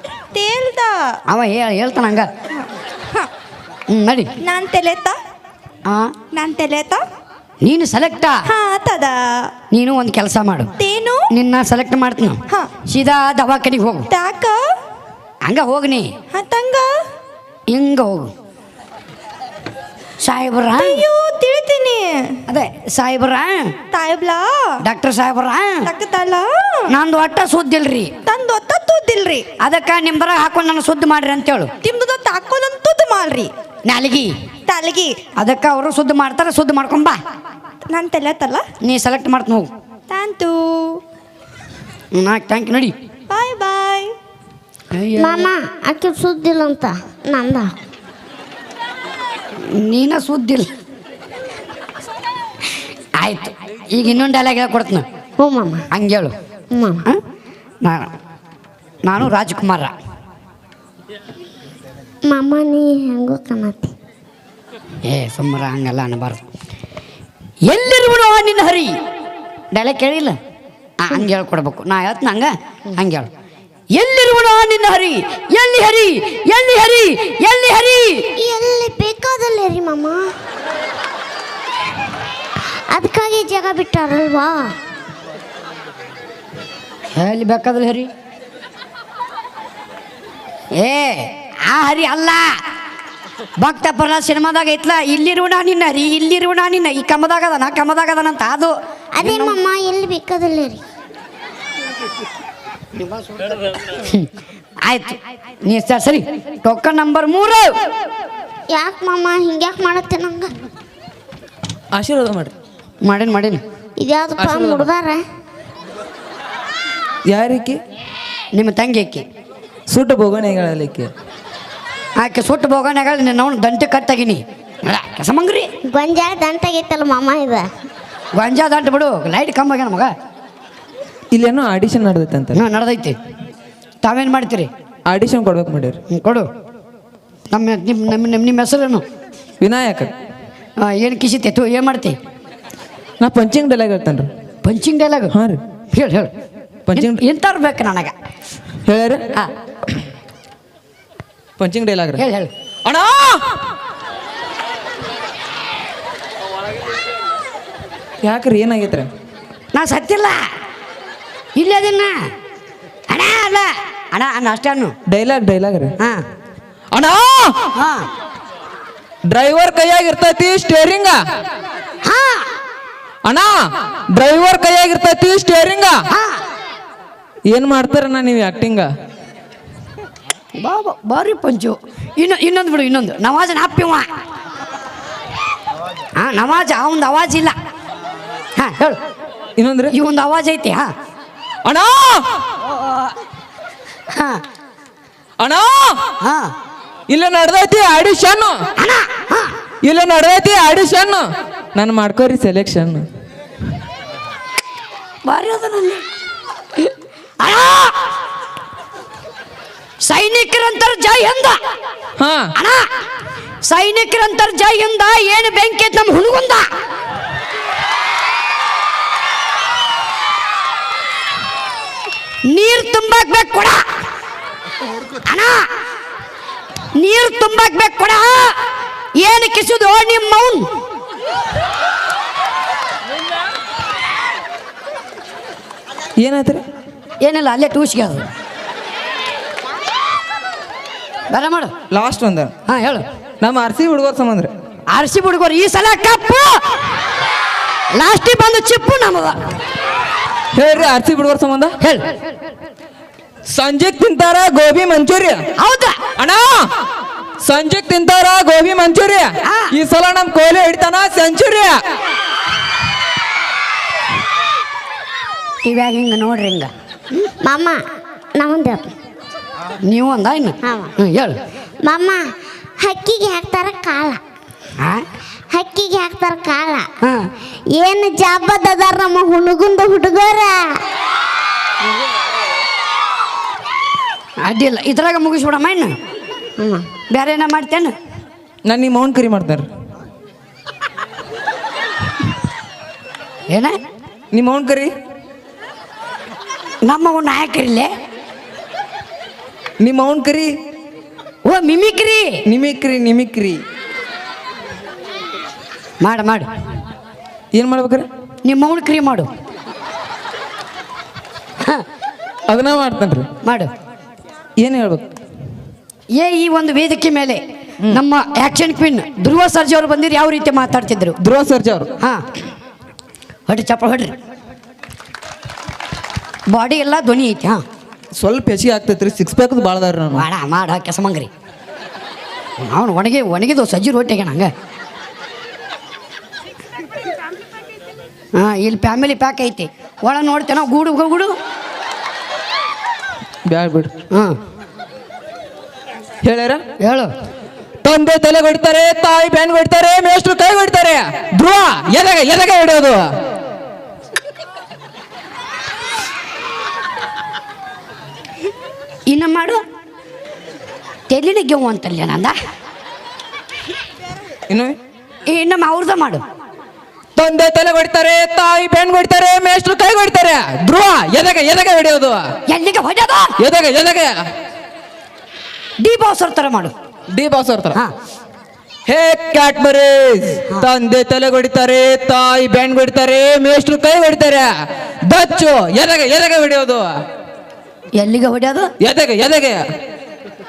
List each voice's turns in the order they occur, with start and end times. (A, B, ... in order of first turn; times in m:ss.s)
0:00.3-0:01.1 A
0:01.3-0:02.3 B
0:02.6-0:03.3 A
0:03.9-0:04.3 B
0:04.4-0:05.2 A
0:05.9-0:06.1 B
0:06.3-0:07.0 A
0:07.6-0:08.4 B
0:08.5-0:09.5 A
0:09.7-0:10.7 B
0:10.8-0:11.2 A
0:11.3-0:14.1 B
0:14.1-0:14.6 A
0:15.4-0:16.1 B
0:16.3-0:16.9 A
0:17.7-0:18.3 B
0:20.2-0:21.0 B
0:20.8-0:22.4 A
0:22.5-0:23.7 B
0:23.9-0:24.8 A
0:24.8-0:25.9 B
0:25.8-0:26.9 A
0:26.9-0:28.1 B
0:28.2-0:29.5 A
0:29.6-0:31.7 B
0:31.8-0:33.5 A
0:33.8-0:34.3 B
0:34.7-0:35.2 A
0:35.4-0:37.2 B
0:37.9-0:38.6 A
0:38.8-0:39.7 B
0:40.1-0:41.0 A
0:42.1-0:43.0 B
0:43.3-0:44.1 A
0:44.9-0:45.5 B
0:45.2-0:47.7 C
0:49.6-0:50.7 B
0:53.2-0:55.0 B
0:55.4-0:55.9 C
0:55.9-0:56.3 B
0:56.7-0:57.0 C
0:57.8-0:58.1 B
0:59.0-0:59.9 B
1:02.3-1:03.9 C
1:05.1-1:06.4 B
1:07.6-1:08.9 B
1:09.7-1:10.4 B
1:11.0-1:13.3 B
1:13.9-1:18.3 B
1:18.4-1:20.2 C
1:22.9-1:24.8 C
1:27.2-1:28.1 B
1:30.7-1:32.6 B
1:33.6-1:39.6 B
1:39.2-1:40.8 C
1:43.0-1:43.3 B
1:43.9-1:44.3 B
1:44.8-1:47.7 B
1:48.7-1:50.5 C
1:51.9-1:52.5 D
1:53.0-1:53.6 B
1:54.0-1:55.2 C
1:54.4-1:54.9 D
1:57.3-1:57.8 D
1:58.5-1:59.2 B
1:59.9-2:01.1 D
2:02.2-2:05.7 B
2:05.9-2:07.7 C
2:08.3-2:10.1 B
2:11.3-2:12.6 D
2:12.5-2:13.2 B
2:14.0-2:14.7 B
2:15.1-2:16.0 D
2:16.1-2:16.5 B
2:17.5-2:19.0 B
2:19.6-2:20.1 D
2:20.8-2:22.2 B
2:23.2-2:24.3 D
2:24.6-2:25.3 B
2:25.3-2:25.6 D
2:25.9-2:26.3 B
2:26.9-2:27.2 D
2:26.9-2:28.1 B
2:28.9-2:29.3 D
2:31.6-2:32.2 D
2:32.2-2:32.5 B
2:32.8-2:33.4 D
2:38.2-2:39.1 D
2:39.7-2:40.5 B
2:41.6-2:42.2 B
2:43.1-2:45.0 B
2:45.1-2:45.9 D
2:46.9-2:47.6 D
2:47.8-2:48.1 B
2:49.3-2:51.2 D
2:52.0-2:52.5 B
2:53.2-2:56.0 D
2:56.1-2:56.4 B
2:57.5-2:58.9 D
3:00.6-3:04.1 B
3:06.2-3:07.6 B
3:08.6-3:09.0 B
3:09.6-3:09.9 D
3:09.9-3:10.9 B
3:11.6-3:12.3 D
3:14.1-3:14.4 B
3:15.4-3:16.0 D
3:16.2-3:16.5 B
3:17.1-3:18.6 D
3:18.8-3:19.5 B
3:19.8-3:23.1 D
3:25.3-3:26.0 B
3:27.4-3:28.0 B
3:30.0-3:31.6 B
3:32.2-3:32.5 D
3:32.6-3:32.9 B
3:33.6-3:36.7 B
3:42.5-3:43.8 B
3:45.2-3:45.7 B
3:47.0-3:48.6 B
3:49.2-3:50.7 B
3:56.2-3:56.6 D
3:57.2-3:58.3 B
4:01.3-4:01.7 B
4:01.9-4:02.5 D
4:02.7-4:03.0 B
4:03.4-4:04.5 D
4:04.9-4:06.8 B
4:07.9-4:09.4 B
4:10.5-4:11.7 D
4:11.8-4:12.1 B
4:13.5-4:15.4 D
4:15.6-4:16.0 B
4:16.2-4:16.7 D
4:17.4-4:21.8 D
4:19.4-4:19.7 B
4:25.6-4:26.7 B
4:27.4-4:27.8 C
4:28.4-4:28.9 C
4:29.9-4:31.4 B
4:30.6-4:30.9 C
4:31.8-4:32.2 C
4:32.8-4:34.2 C
4:35.5-4:36.9 C
4:37.0-4:37.3 B
4:37.7-4:40.8 C
4:44.4-4:45.9 B
4:46.6-4:46.9 C
4:47.1-4:47.9 B
4:48.7-4:49.7 D
4:53.5-4:53.8 B
4:54.3-4:54.9 D
4:56.8-4:57.9 B
4:59.8-5:00.5 D
5:01.4-5:02.4 B
5:02.5-5:03.6 D
5:06.0-5:06.5 B
5:07.5-5:08.1 D
5:08.4-5:09.3 B
5:12.5-5:13.3 D
5:13.4-5:13.7 B
5:14.6-5:15.0 D
5:16.2-5:21.2 B
5:21.2-5:21.9 D
5:23.5-5:24.1 B
5:26.5-5:27.6 B
5:28.2-5:30.2 D
5:30.1-5:31.3 B
5:32.6-5:34.5 B
5:38.4-5:41.3 B
5:43.5-5:43.9 D
5:44.1-5:44.4 B
5:46.2-5:46.6 D
5:46.8-5:47.1 B
5:47.8-5:53.1 D
5:59.1-5:59.6 B
6:01.1-6:02.4 B
6:04.5-6:04.8 D
6:05.3-6:06.2 B
6:07.2-6:12.2 D
6:12.5-6:13.3 B
6:13.4-6:14.2 D
6:15.8-6:16.7 B
6:17.1-6:17.8 D
6:18.9-6:24.5 D
6:25.1-6:26.9 D
6:28.0-6:28.7 B
6:28.8-6:29.6 D